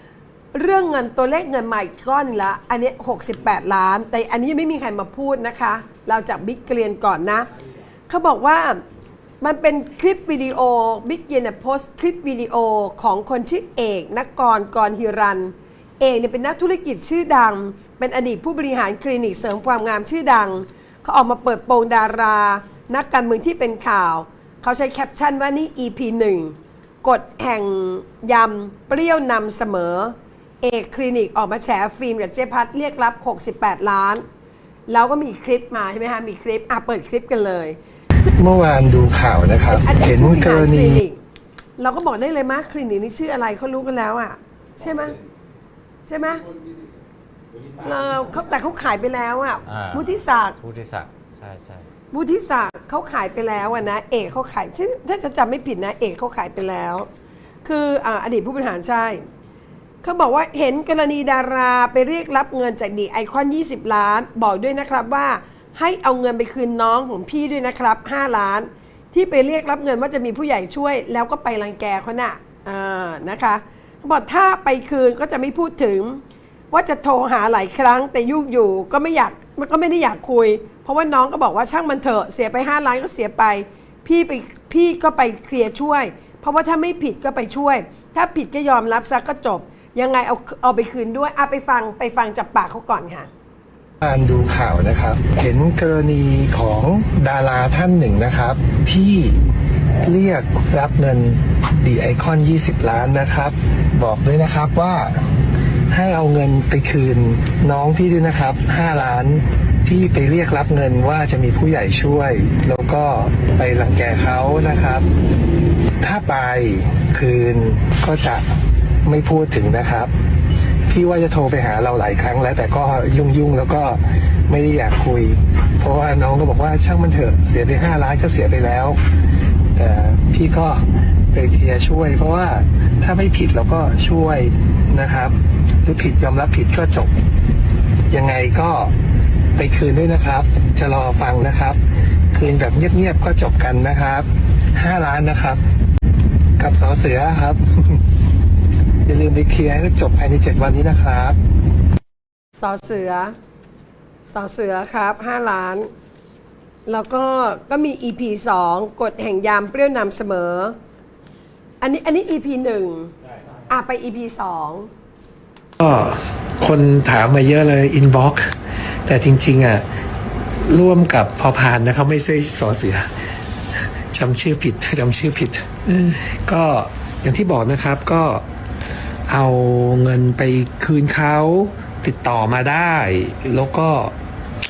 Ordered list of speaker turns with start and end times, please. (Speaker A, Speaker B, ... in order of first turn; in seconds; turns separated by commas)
Speaker A: 0.5-7.5, Speaker A: 8.1-8.8, Speaker A: 9.4-34.2, Speaker A: 34.9-38.3, Speaker B: 38.4-41.0, Speaker A: 39.7-41.2, Speaker A: 41.8-45.2, Speaker A: 46.1-46.4, Speaker A: 47.8-50.6, Speaker C: 49.7-51.9, Speaker A: 52.1-57.1, Speaker A: 57.6-59.2, Speaker A: 60.0-93.3, Speaker B: 94.0-99.4, Speaker B: 100.0-105.3, Speaker B: 105.9-115.1, Speaker B: 116.0-120.1, Speaker B: 120.9-129.0, Speaker B: 129.8-137.2, Speaker B: 138.1-138.9, Speaker B: 139.6-141.8, Speaker B: 142.3-145.6, Speaker B: 146.6-148.0, Speaker B: 149.1-151.4, Speaker A: 152.6-153.3, Speaker A: 154.3-155.9, Speaker A: 156.9-160.8, Speaker A: 161.8-164.9, Speaker B: 165.8-168.6, Speaker B: 169.1-169.8, Speaker B: 170.6-173.1, Speaker B: 174.1-178.4, Speaker B: 179.3-184.1